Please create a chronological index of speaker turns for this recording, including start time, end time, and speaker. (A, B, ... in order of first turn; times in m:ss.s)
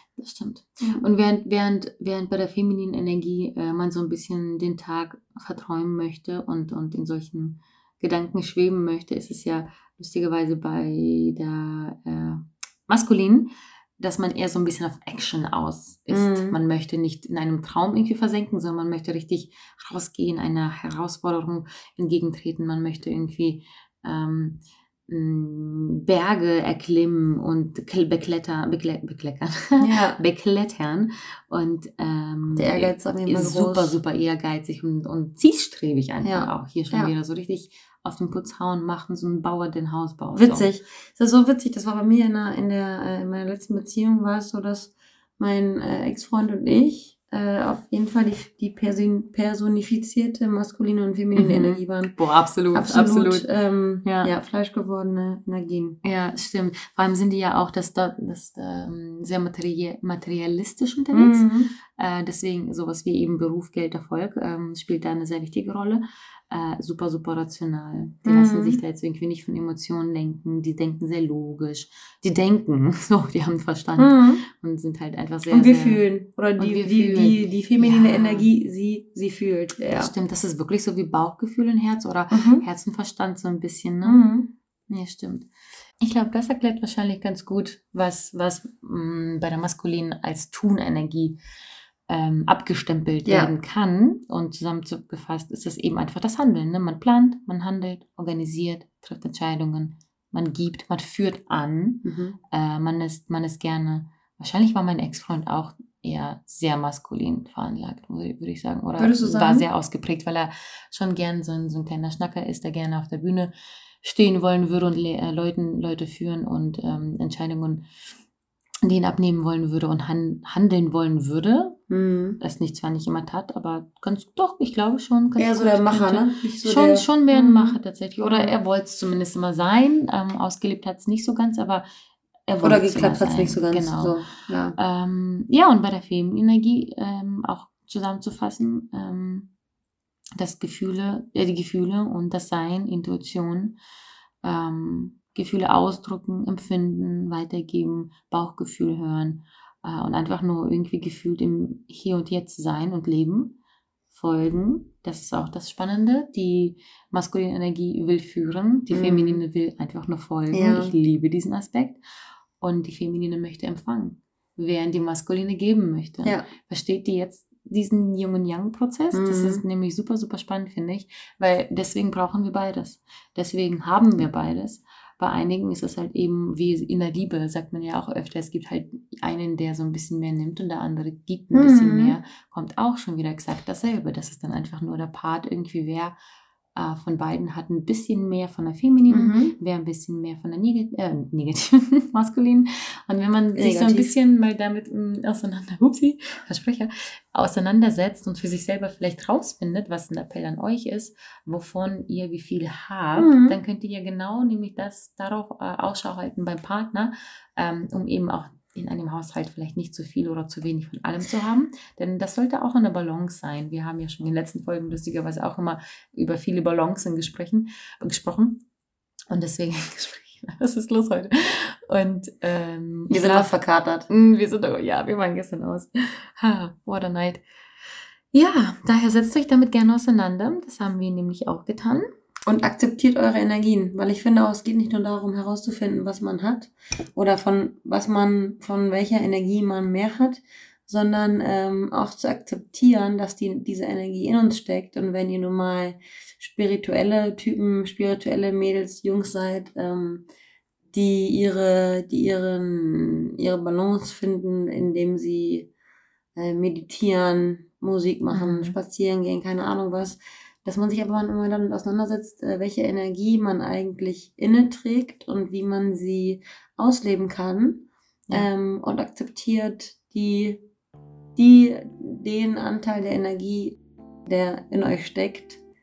0:00.2-0:40.7 A
0:16.1-0:16.6 B
0:29.8-0:30.2 B
0:32.6-0:34.0 B
0:36.2-0:37.1 B
0:40.3-0:52.2 B
0:51.4-0:53.5 A
0:52.7-0:56.0 B
0:54.0-0:54.3 A
0:56.0-1:01.4 A
1:01.1-1:01.7 B
1:02.0-1:16.0 A
1:08.3-1:08.8 B
1:14.0-1:14.4 B
1:15.5-1:20.1 B
1:16.6-1:18.5 A
1:19.9-1:24.2 A
1:22.3-1:22.6 B
1:24.0-1:24.5 B
1:24.9-1:25.5 A
1:26.0-1:31.4 A
1:32.1-1:57.8 A
1:33.2-1:33.5 B
1:42.0-1:42.4 B
1:49.0-1:49.6 B
1:58.8-2:01.8 A
2:01.9-2:02.4 B
2:02.4-2:11.9 A
2:05.4-2:08.5 B
2:12.5-2:14.2 A
2:12.6-2:14.8 B
2:14.8-2:19.5 A
2:20.4-2:23.8 A
2:24.4-2:33.6 A
2:34.1-2:42.0 A
2:38.9-2:39.4 B
2:40.5-2:40.9 B
2:42.6-3:06.2 A
2:49.1-2:49.6 B
3:01.5-3:02.2 B
3:06.8-3:38.6 A
3:09.1-3:09.6 B
3:13.6-3:14.1 B
3:23.2-3:23.6 B
3:39.3-3:43.5 A
3:43.1-3:44.1 B
3:44.1-3:47.4 A
3:48.3-3:52.0 A
3:52.5-4:10.2 B
4:10.9-4:15.7 B
4:16.4-4:30.6 B
4:18.3-4:18.8 A
4:31.4-4:35.6 B